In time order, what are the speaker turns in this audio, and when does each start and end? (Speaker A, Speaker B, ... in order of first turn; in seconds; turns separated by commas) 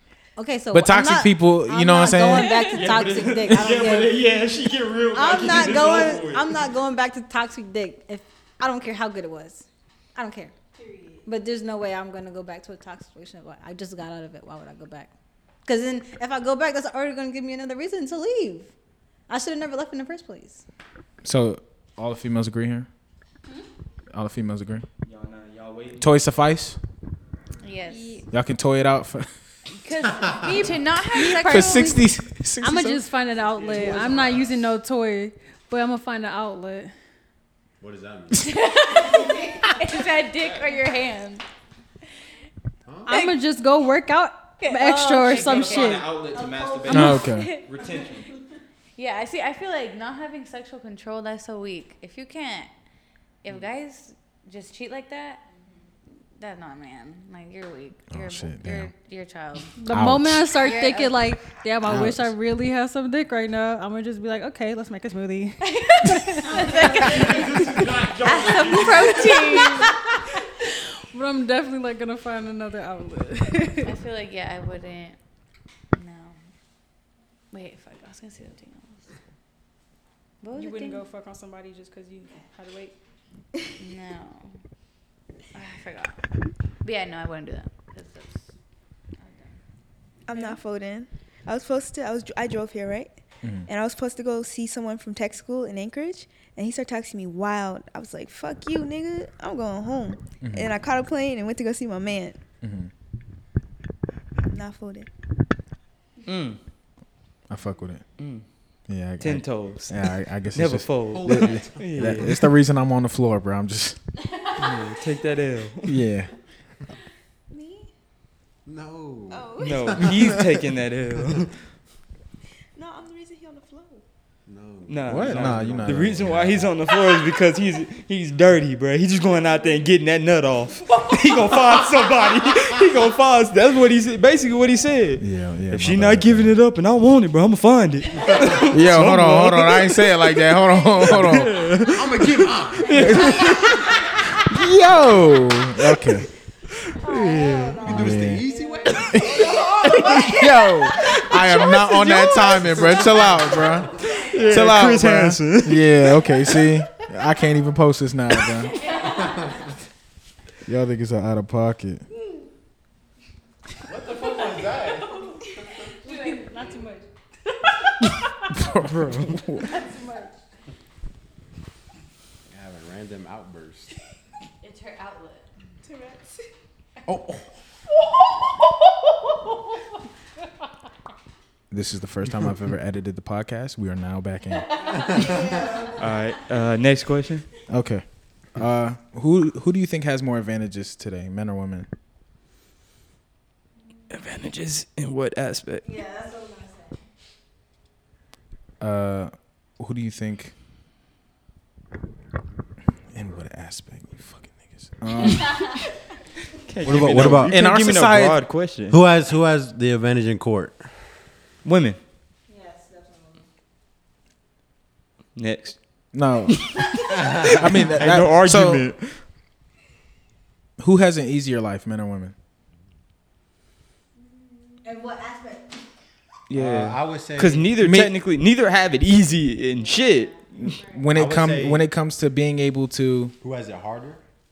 Speaker A: 0.4-4.2, Speaker B: 0.7-2.6, Speaker C: 2.7-6.6, Speaker A: 5.1-10.6, Speaker D: 10.8-11.1, Speaker A: 11.2-18.8, Speaker A: 19.3-20.6, Speaker B: 21.2-22.9, Speaker B: 24.1-24.9, Speaker C: 25.0-26.1, Speaker B: 26.0-26.8, Speaker E: 27.6-28.2, Speaker D: 27.9-28.3, Speaker B: 28.3-29.6, Speaker E: 29.7-31.9, Speaker D: 31.1-32.1, Speaker B: 31.4-33.0, Speaker D: 32.6-37.0, Speaker F: 33.5-34.7, Speaker F: 37.8-38.6, Speaker E: 38.4-41.5, Speaker C: 40.4-40.8, Speaker F: 42.9-43.1, Speaker D: 43.1-46.2, Speaker E: 43.1-43.4, Speaker E: 44.6-46.0, Speaker C: 45.3-48.3, Speaker E: 46.9-47.6, Speaker B: 46.9-47.5, Speaker E: 49.0-55.5, Speaker E: 56.3-59.8, Speaker B: 58.1-58.9, Speaker D: 59.8-67.6, Speaker B: 59.9-60.6, Speaker E: 60.5-61.6, Speaker B: 61.9-62.3, Speaker E: 65.7-67.7, Speaker C: 67.1-69.2, Speaker E: 68.3-70.0, Speaker D: 68.7-69.9, Speaker D: 71.1-74.0, Speaker E: 73.8-76.5, Speaker E: 77.5-79.1, Speaker E: 80.4-81.0, Speaker D: 80.5-83.0, Speaker E: 83.8-84.6, Speaker E: 85.5-89.9, Speaker G: 90.2-102.4, Speaker B: 93.4-93.7, Speaker B: 100.4-100.8, Speaker B: 102.6-102.9, Speaker G: 104.5-105.1, Speaker C: 106.3-106.6, Speaker B: 107.5-114.1, Speaker C: 108.2-112.4, Speaker F: 111.1-112.3, Speaker C: 114.6-116.0, Speaker B: 115.9-116.7, Speaker G: 117.5-117.9, Speaker F: 118.7-120.4, Speaker G: 119.3-120.2, Speaker C: 119.6-121.6, Speaker G: 122.8-124.0, Speaker F: 124.5-126.3, Speaker C: 124.9-140.0, Speaker B: 125.1-126.7, Speaker B: 135.2-136.6, Speaker B: 138.7-141.7, Speaker C: 141.0-143.9, Speaker F: 141.8-143.2, Speaker B: 143.0-143.4, Speaker B: 144.5-146.3, Speaker C: 146.9-148.0, Speaker F: 147.8-150.0, Speaker B: 147.8-148.4, Speaker A: 148.2-149.3, Speaker C: 149.9-150.3, Speaker B: 150.2-158.8, Speaker F: 152.6-153.9, Speaker C: 154.3-156.0, Speaker E: 158.8-159.5, Speaker B: 160.7-162.1, Speaker F: 163.9-165.1, Speaker D: 164.0-168.7, Speaker E: 166.1-166.5, Speaker B: 168.6-169.7, Speaker C: 168.8-169.5, Speaker D: 169.6-170.4, Speaker F: 172.5-173.9, Speaker E: 174.6-175.4, Speaker G: 175.8-176.4, Speaker F: 177.1-177.4, Speaker B: 181.7-184.8, Speaker E: 184.9-185.5, Speaker C: 186.0-187.5, Speaker B: 187.7-191.9, Speaker C: 194.1-195.9, Speaker A: 195.8-197.0, Speaker B: 198.8-200.6, Speaker B: 203.1-205.9, Speaker E: 205.3-205.8, Speaker C: 206.6-209.0, Speaker B: 206.8-208.5, Speaker F: 206.9-207.5, Speaker F: 208.8-211.2, Speaker C: 211.6-212.0, Speaker A: 212.5-213.4, Speaker C: 215.4-216.8, Speaker B: 216.1-218.9, Speaker F: 217.2-217.5, Speaker C: 217.7-219.2, Speaker B: 220.8-222.3, Speaker A: 224.8-225.8, Speaker C: 226.5-230.8, Speaker F: 226.5-227.8, Speaker B: 227.8-228.2, Speaker E: 229.7-231.1, Speaker B: 230.6-233.3, Speaker F: 231.1-231.9, Speaker F: 233.4-234.2